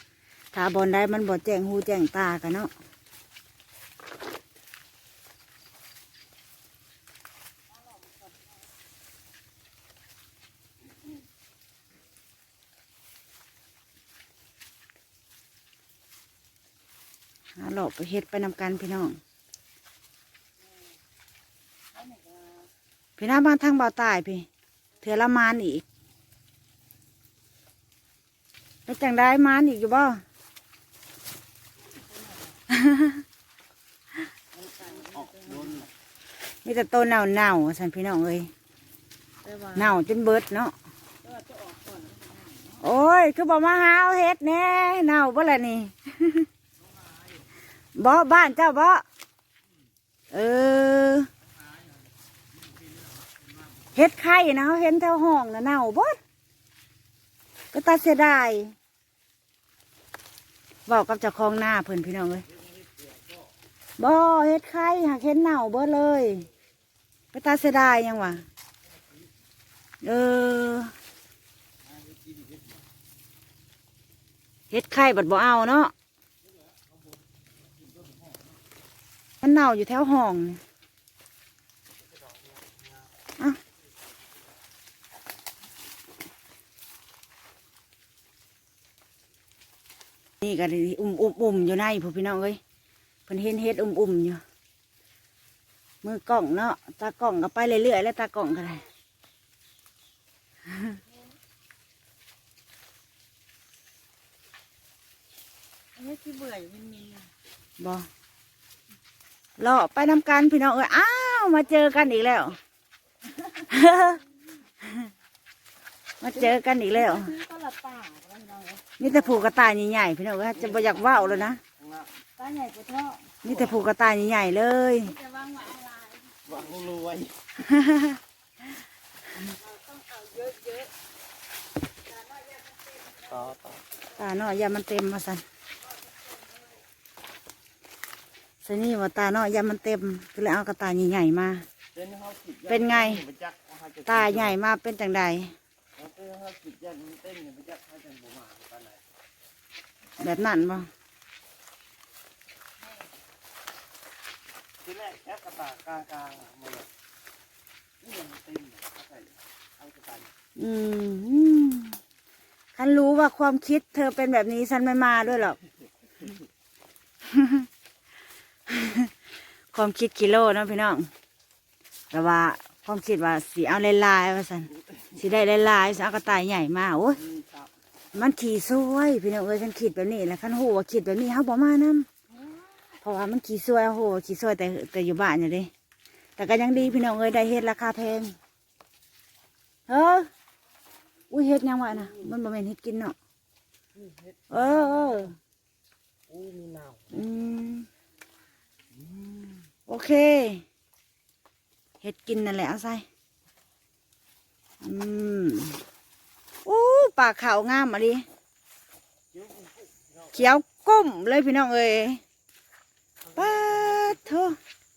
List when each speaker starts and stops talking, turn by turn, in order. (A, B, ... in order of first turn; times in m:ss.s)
0:00.5-0:02.7 A
0:07.7-0:08.6 B
0:17.6-0:19.2 A
0:21.9-0:22.7 B
0:23.2-0:24.5 A
0:25.0-0:25.8 A
0:28.9-0:30.2 A
0:31.8-0:32.6 B
0:32.7-0:33.2 A
0:34.5-0:35.9 B
0:35.0-0:35.9 C
0:36.6-0:38.5 A
0:39.4-0:40.0 B
0:39.7-0:40.7 A
0:41.2-0:42.8 B
0:42.8-0:46.5 A
0:47.9-0:49.0 A
0:50.3-0:51.3 A
0:53.9-0:56.2 A
0:57.7-0:58.7 A
1:00.9-1:02.5 A
1:04.0-1:06.5 A
1:07.3-1:08.4 A
1:10.0-1:10.9 A
1:14.7-1:15.9 A
1:19.4-1:20.6 A
1:22.3-1:22.6 C
1:30.4-1:32.6 A
1:33.3-1:34.4 A
1:36.0-1:38.8 A
1:46.0-1:47.3 B
1:47.8-1:48.1 A
1:49.6-1:52.6 A
1:53.3-1:54.2 B
1:53.7-1:54.2 A
1:56.2-1:57.3 A
1:56.3-1:59.5 B
1:59.0-2:01.6 A
2:00.6-2:02.1 C
2:02.4-2:03.4 B
2:03.4-2:05.1 A
2:03.5-2:03.8 C
2:05.0-2:06.6 B
2:06.4-2:07.4 C
2:07.6-2:08.2 A
2:09.4-2:10.9 B
2:12.1-2:13.5 B
2:13.2-2:13.8 C
2:14.1-2:15.4 A
2:18.6-2:21.7 A
2:21.9-2:24.6 C
2:22.6-2:23.2 A
2:24.0-2:25.6 A
2:26.0-2:29.0 C
2:30.2-2:30.9 A
2:34.8-2:36.9 C
2:38.0-2:40.3 C
2:40.6-2:42.0 A
2:42.7-2:45.6 A
2:47.2-2:47.7 A
2:48.7-2:49.1 A
2:49.7-2:51.1 A
2:52.1-2:57.2 A
2:57.2-2:57.7 C
2:58.1-3:02.1 A
3:03.0-3:05.7 A
3:06.4-3:08.3 A
3:09.9-3:10.3 A
3:11.3-3:13.2 A
3:14.0-3:15.2 C
3:14.5-3:15.4 A
3:16.3-3:17.2 C
3:17.1-3:17.9 A
3:18.9-3:19.6 C
3:19.9-3:20.6 A
3:22.0-3:23.0 A
3:24.8-3:25.8 A
3:26.6-3:28.2 A
3:29.3-3:30.3 C
3:30.3-3:32.2 A
3:33.3-3:34.6 A
3:33.6-3:34.1 C